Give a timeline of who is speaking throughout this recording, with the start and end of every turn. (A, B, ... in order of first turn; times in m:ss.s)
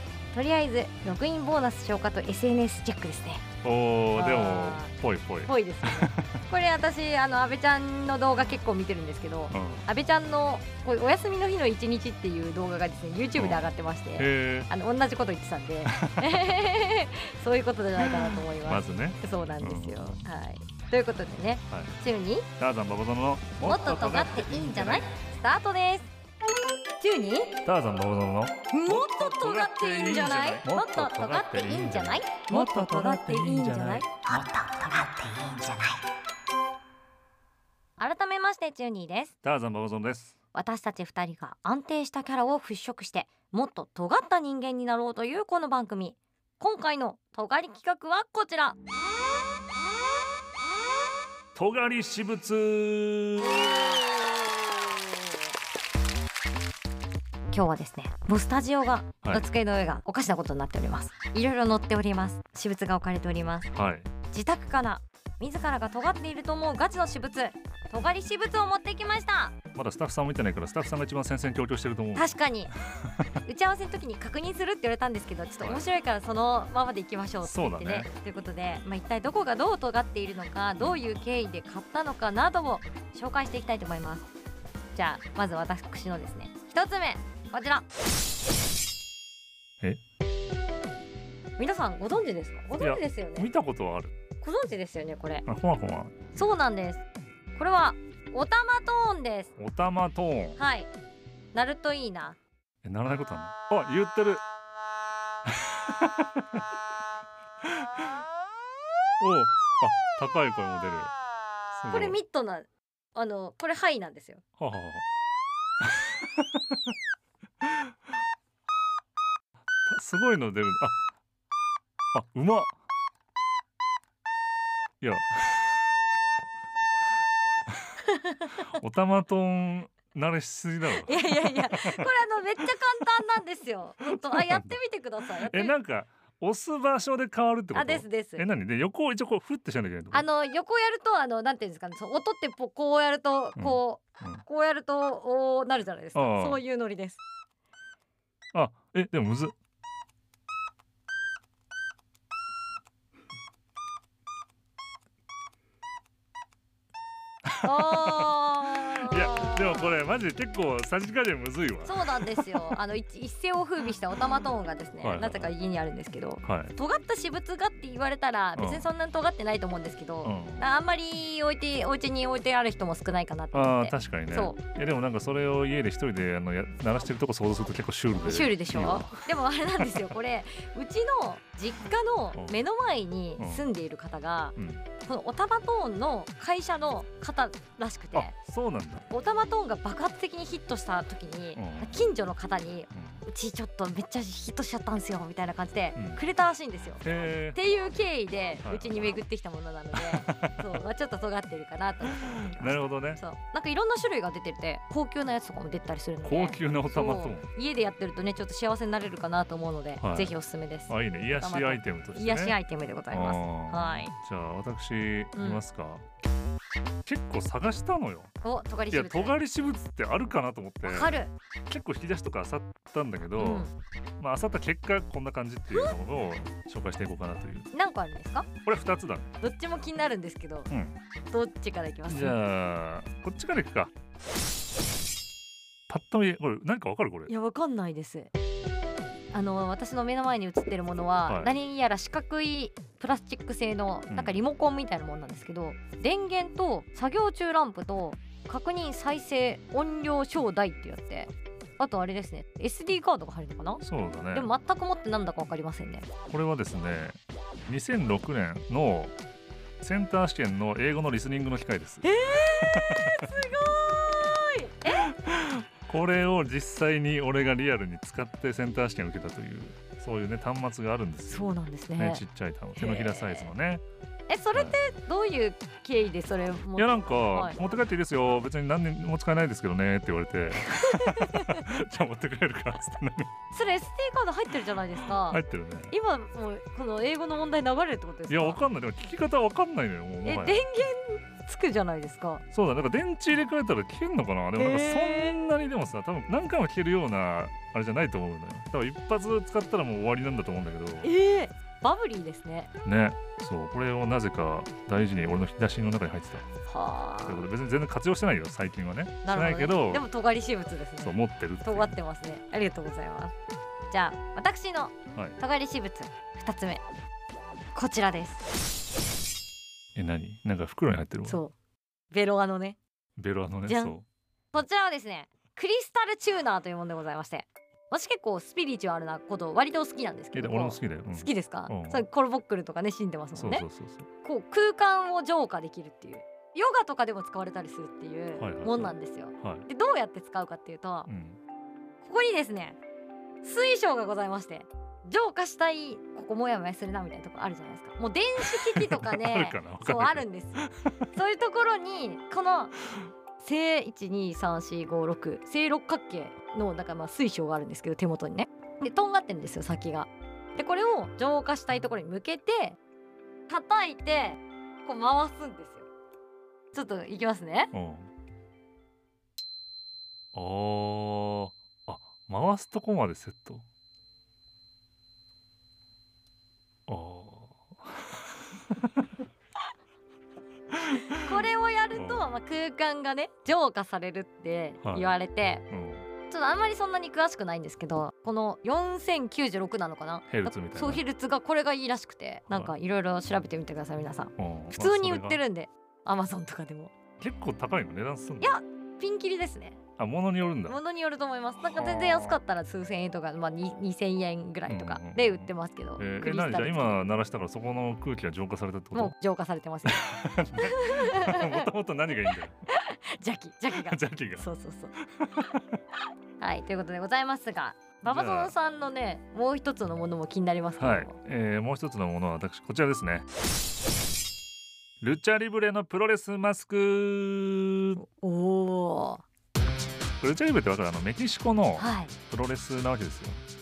0:00.3-0:03.4 A
0:03.6-0:06.4 B
0:04.1-0:04.9 A
0:05.4-0:22.5 A
0:09.5-0:09.9 B
0:13.4-0:14.7 B
0:15.8-0:16.5 B
0:18.0-0:20.2 B
0:21.7-0:21.9 B
0:22.6-0:25.0 B
0:23.6-0:26.1 A
0:27.0-0:27.6 A
0:27.6-0:34.0 B
0:28.7-0:36.0 A
0:38.0-0:39.3 A
0:39.4-0:40.4 B
0:40.5-0:48.8 A
0:51.5-0:54.0 B
0:53.4-0:54.6 A
0:57.5-1:03.7 A
1:03.7-1:04.1 B
1:04.3-1:09.6 A
1:09.7-1:13.2 B
1:12.2-1:12.7 A
1:13.4-1:24.3 A
1:17.4-1:18.1 B
1:24.9-1:27.8 A
1:31.6-1:33.5 A
1:32.8-1:34.1 B
1:34.4-1:35.4 A
1:35.4-1:36.2 B
1:36.3-1:39.5 A
1:39.6-1:40.6 B
1:40.6-1:40.9 A
1:41.5-1:42.4 A
1:42.8-1:44.4 B
1:45.4-1:46.6 B
1:49.2-1:51.1 B
1:51.7-1:52.2 B
1:51.9-1:54.4 A
1:54.6-1:55.0 B
1:55.8-1:56.8 B
1:59.8-2:00.9 B
2:02.1-2:02.7 B
2:05.0-2:05.9 B
2:08.0-2:08.6 A
2:08.7-2:12.6 B
2:10.9-2:15.7 A
2:14.0-2:14.8 B
2:15.4-2:20.2 B
2:17.7-2:18.4 A
2:20.1-2:27.2 A
2:23.6-2:24.4 B
2:26.1-2:26.6 B
2:28.5-2:29.5 B
2:37.4-2:42.8 B
2:37.6-2:39.9 A
2:41.8-2:54.6 A
2:45.0-2:45.5 B
2:46.4-2:46.7 B
2:48.6-2:48.9 B
2:50.2-2:50.7 B
2:53.5-3:00.1 B
2:58.1-3:08.3 A
3:03.4-3:03.7 B
3:04.6-3:04.8 B
3:08.1-3:09.0 B
3:09.1-3:34.1 A
3:11.6-3:12.1 B
3:12.9-3:13.2 B
3:16.0-3:16.2 B
3:17.0-3:17.6 B
3:18.6-3:19.2 B
3:20.0-3:20.6 B
3:22.2-3:23.2 B
3:26.2-3:27.5 B
3:30.0-3:30.4 B
3:30.9-3:32.6 B
3:33.1-3:36.0 B
3:35.4-3:35.6 A
3:37.0-3:38.3 B
3:38.4-3:39.4 A
3:38.9-3:41.2 B
3:40.8-3:41.3 A
3:41.7-3:43.7 B
3:43.4-3:43.7 A
3:44.2-3:47.7 B
3:47.7-3:48.5 A
3:48.6-3:49.3 B
3:49.4-3:50.7 A
3:50.7-3:51.0 B
3:51.3-3:52.4 A
3:52.1-3:53.9 B
3:55.9-3:57.3 B
3:57.3-3:58.3 A
3:59.3-4:16.1 A
4:01.3-4:01.5 B
4:04.1-4:04.4 B
4:13.8-4:14.5 B
4:16.3-4:19.1 B
4:19.8-4:23.3 B
4:22.0-4:25.1 A
4:24.9-4:33.8 B
4:31.3-4:32.2 A
4:32.8-4:33.5 A
4:34.3-4:37.6 A
4:34.5-4:34.8 B
4:36.8-4:43.3 B
4:40.6-4:41.6 A
4:43.5-4:48.6 A
4:45.2-4:46.0 B
4:48.3-4:50.6 B
4:50.2-4:52.4 A
4:52.5-5:01.1 B
4:54.6-4:55.4 A
5:01.0-5:02.7 A
5:02.8-5:06.4 B
5:06.6-5:07.4 A
5:07.2-5:10.0 B
5:09.2-5:13.3 A
5:11.0-5:12.0 B
5:13.9-5:16.8 A
5:15.1-5:15.4 B
5:17.7-5:18.4 A
5:19.9-5:21.4 B
5:21.2-5:21.5 A
5:22.1-5:22.8 A
5:23.2-5:24.0 B
5:23.6-5:24.0 A
5:24.5-5:33.7 A
5:30.3-5:32.0 B
5:33.4-5:34.1 B
5:34.2-5:41.1 A
5:38.4-5:39.7 B
5:41.1-5:41.4 B
5:42.0-5:42.8 A
5:43.4-5:52.8 A
5:48.4-5:51.1 B
5:53.4-6:02.8 A
6:03.5-6:05.9 A
6:06.7-6:07.7 A
6:07.7-6:08.1 B
6:10.3-6:13.6 B
6:16.9-6:19.0 B
6:20.8-6:21.3 B
6:21.2-6:25.6 A
6:21.9-6:22.3 B
6:24.8-6:25.1 B
6:25.7-6:26.1 B
6:26.3-6:36.9 A
6:30.3-6:31.0 B
6:32.5-6:32.8 B
6:34.4-6:35.4 B
6:37.2-6:38.5 B
6:38.4-6:39.8 A
6:40.0-6:40.8 B
6:40.7-6:47.0 A
6:41.7-6:42.3 B
6:44.7-6:49.1 B
6:48.9-6:51.7 A
6:49.8-6:52.5 B
6:52.7-6:54.9 A
6:53.8-6:55.8 B
6:56.4-7:01.1 A
6:58.0-6:58.5 B
7:00.8-7:03.2 B
7:05.0-7:08.0 B
7:08.0-7:09.2 A
7:10.2-7:13.4 B
7:11.8-7:12.1 A